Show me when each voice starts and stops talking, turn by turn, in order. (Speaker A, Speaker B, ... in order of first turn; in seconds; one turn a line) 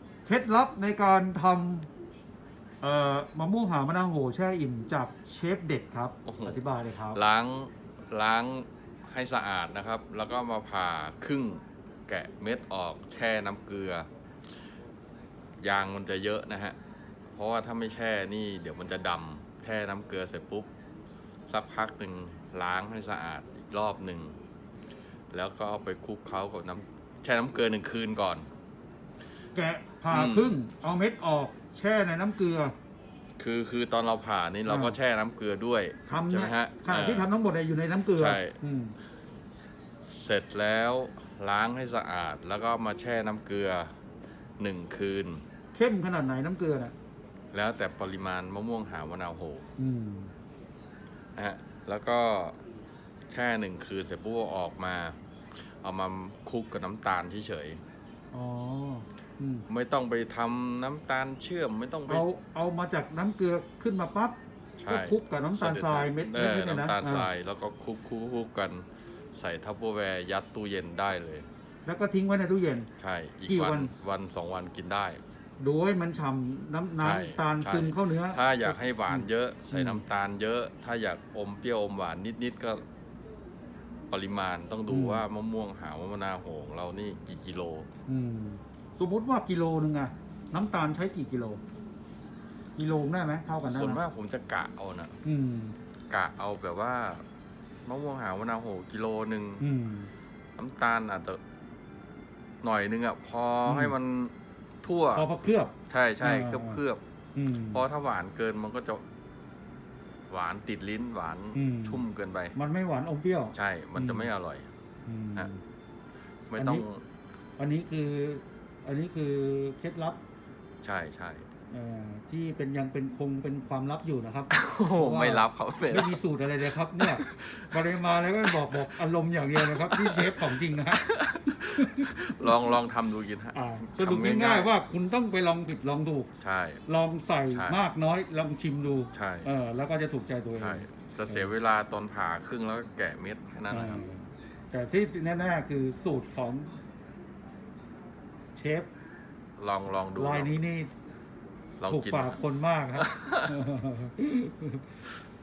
Speaker A: 0.3-1.9
Speaker A: 2.8-7.2
Speaker B: 6.3-14.1
Speaker B: 15.6-16.8
Speaker B: 17.3-20.7
Speaker B: 21.5-24.4
Speaker B: 25.3-28.5
Speaker A: 29.6-32.7
Speaker B: 30.1-30.6
Speaker B: 33.4-37.3
Speaker A: 34.7-35.0
Speaker A: 36.1-39.0
Speaker B: 38.2-38.6
Speaker B: 40.1-43.9
Speaker B: 44.6-45.4
Speaker A: 45.7-46.9
Speaker B: 47.5-49.6
Speaker A: 49.8-50.3
Speaker B: 51.4-52.6
Speaker B: 53.3-55.2
Speaker B: 55.8-57.8
Speaker A: 58.3-59.7
Speaker B: 59.7-62.2
Speaker A: 62.1-67.3
Speaker B: 64.8-71.5
Speaker A: 71.9-72.9
Speaker B: 73.0-75.2
Speaker A: 73.5-73.9
Speaker A: 75.6-80.0
Speaker B: 77.0-82.8
Speaker B: 84.1-87.9
Speaker A: 84.9-85.2
Speaker A: 88.1-91.6
Speaker A: 92.8-94.0
Speaker B: 93.6-95.1
Speaker A: 95.2-95.8
Speaker B: 96.1-97.2
Speaker B: 97.9-99.7
Speaker A: 99.6-100.1
Speaker B: 100.6-101.4
Speaker B: 102.6-105.3
Speaker A: 103.7-104.0
Speaker A: 105.1-106.8
Speaker B: 105.9-107.0
Speaker A: 107.4-107.8
Speaker B: 107.7-109.0
Speaker B: 110.3-112.5
Speaker A: 111.5-112.0
Speaker A: 112.5-114.3
Speaker B: 113.5-114.7
Speaker A: 115.1-115.6
Speaker B: 116.5-117.0
Speaker A: 116.6-116.8
Speaker A: 117.6-120.2
Speaker B: 120.8-121.4
Speaker A: 121.7-132.7
Speaker B: 124.5-126.2
Speaker B: 127.0-128.8
Speaker B: 129.5-134.7
Speaker A: 133.5-136.3
Speaker B: 136.4-136.8
Speaker A: 136.9-141.5
Speaker B: 137.5-137.8
Speaker B: 139.1-139.5
Speaker B: 140.6-144.0
Speaker A: 143.7-146.7
Speaker A: 148.6-148.9
Speaker B: 149.6-150.6
Speaker A: 150.2-150.9
Speaker B: 151.8-152.4
Speaker A: 151.9-154.8
Speaker B: 152.9-153.7